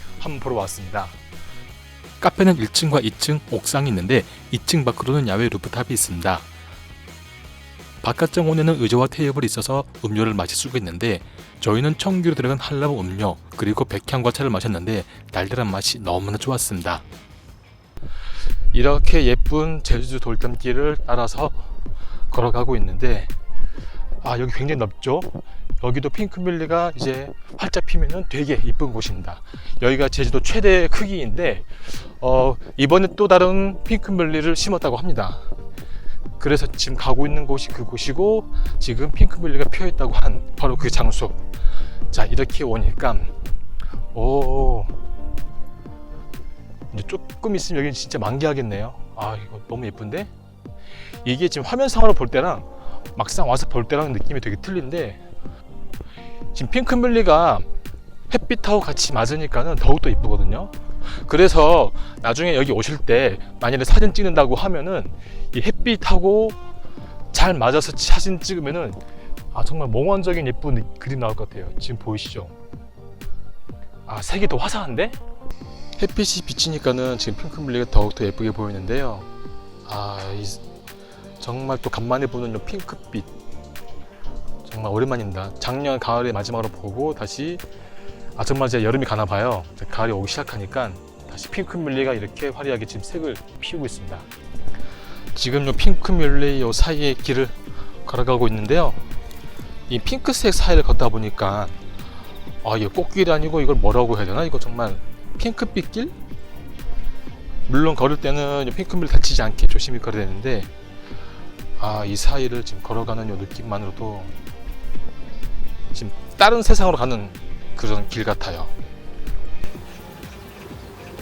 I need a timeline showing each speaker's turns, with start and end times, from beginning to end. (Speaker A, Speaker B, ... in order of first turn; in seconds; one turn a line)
Speaker A: 0.2-1.2
Speaker A: 2.2-6.5
Speaker A: 8.0-17.0
Speaker A: 18.7-21.8
Speaker A: 22.3-23.3
Speaker A: 24.2-35.5
Speaker A: 36.4-41.5
Speaker A: 42.1-43.4
Speaker A: 44.1-45.0
Speaker A: 46.9-50.3
Speaker A: 51.2-55.2
Speaker A: 56.5-57.7
Speaker A: 58.3-66.6
Speaker A: 67.3-69.0
Speaker A: 69.5-72.5
Speaker A: 74.1-75.2
Speaker A: 76.0-79.3
Speaker A: 79.9-80.6
Speaker A: 81.4-83.3
Speaker A: 84.7-87.6
Speaker A: 88.4-94.3
Speaker A: 95.3-99.0
Speaker A: 99.9-101.8
Speaker A: 102.6-106.1
Speaker A: 107.7-110.7
Speaker A: 111.8-114.3
Speaker A: 115.9-118.7